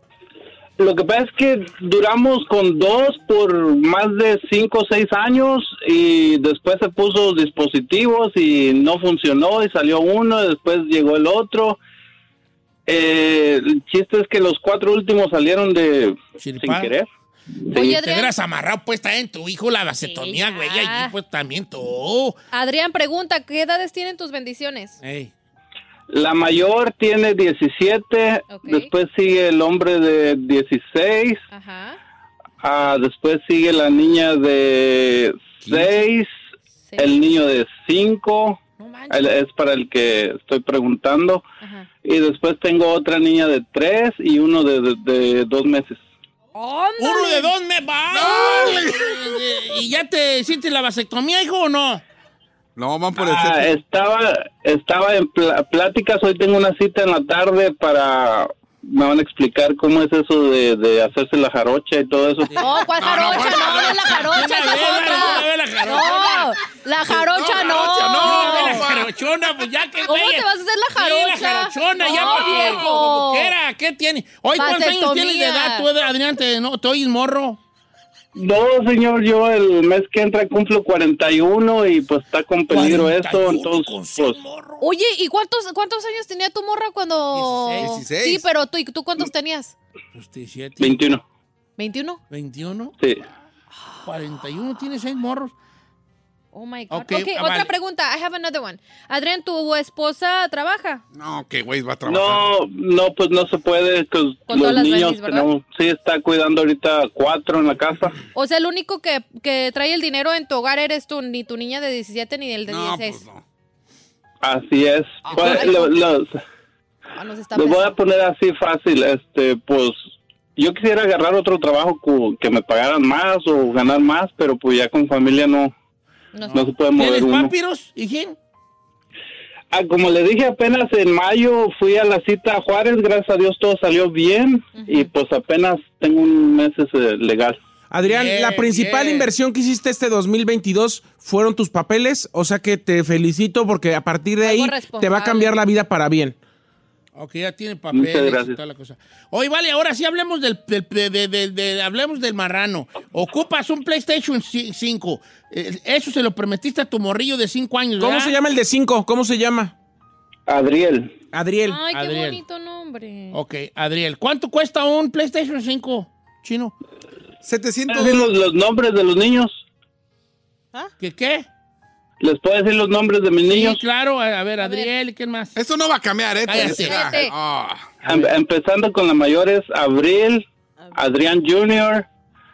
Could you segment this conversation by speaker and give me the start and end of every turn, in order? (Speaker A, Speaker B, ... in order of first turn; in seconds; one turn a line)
Speaker A: 0.8-11.8
Speaker A: 12.9-17.1
Speaker B: 16.4-16.9
Speaker A: 17.7-17.9
Speaker C: 17.7-18.3
Speaker B: 17.7-22.4
Speaker C: 20.0-21.1
Speaker C: 22.5-25.0
Speaker B: 25.0-25.3
Speaker A: 26.1-31.4
Speaker C: 28.5-28.9
Speaker C: 31.5-32.0
Speaker A: 32.6-36.3
Speaker C: 36.9-37.3
Speaker A: 37.0-41.4
Speaker C: 38.8-39.3
Speaker C: 41.6-41.9
Speaker A: 42.0-46.0
Speaker C: 46.5-47.5
Speaker B: 47.0-52.0
Speaker D: 48.1-49.1
Speaker D: 52.8-53.8
Speaker A: 53.2-62.7
Speaker C: 62.6-68.8
Speaker D: 63.0-65.2
Speaker B: 64.1-66.5
Speaker D: 67.1-69.1
Speaker B: 67.8-77.6
Speaker C: 70.1-73.5
Speaker D: 72.1-72.8
Speaker C: 74.5-75.9
Speaker A: 78.3-84.4
Speaker B: 82.7-84.8
Speaker C: 84.8-89.7
Speaker B: 87.3-88.0
Speaker D: 87.8-88.5
Speaker B: 90.1-91.1
Speaker A: 90.8-91.2
Speaker C: 91.8-92.2
Speaker B: 92.3-92.9
Speaker B: 94.0-95.5
Speaker C: 96.5-101.0
Speaker B: 96.9-97.7
Speaker D: 101.1-102.5
Speaker A: 102.0-108.2
Speaker C: 104.5-105.5
Speaker C: 108.3-113.2
Speaker D: 112.7-113.4
Speaker A: 114.4-116.4
Speaker C: 115.3-116.0
Speaker C: 117.1-118.0
Speaker A: 117.5-120.0
Speaker A: 120.6-125.7
Speaker C: 126.3-126.7
Speaker B: 126.5-128.4
Speaker A: 126.5-127.5
Speaker A: 129.7-137.6
Speaker C: 134.8-135.1
Speaker E: 137.9-146.3
Speaker B: 138.0-139.3
Speaker C: 144.4-145.5
Speaker B: 147.2-158.3
Speaker A: 147.9-148.6
Speaker E: 158.0-159.7
Speaker A: 160.5-161.2
Speaker E: 161.3-161.8
Speaker C: 161.7-163.4
Speaker B: 161.9-162.4
Speaker B: 163.3-166.7
Speaker D: 167.4-168.3
Speaker A: 167.9-169.6
Speaker B: 171.0-171.4
Speaker A: 172.2-173.8
Speaker B: 173.5-175.6
Speaker D: 175.5-178.0
Speaker B: 176.4-177.1
Speaker C: 176.5-177.3
Speaker A: 178.0-182.1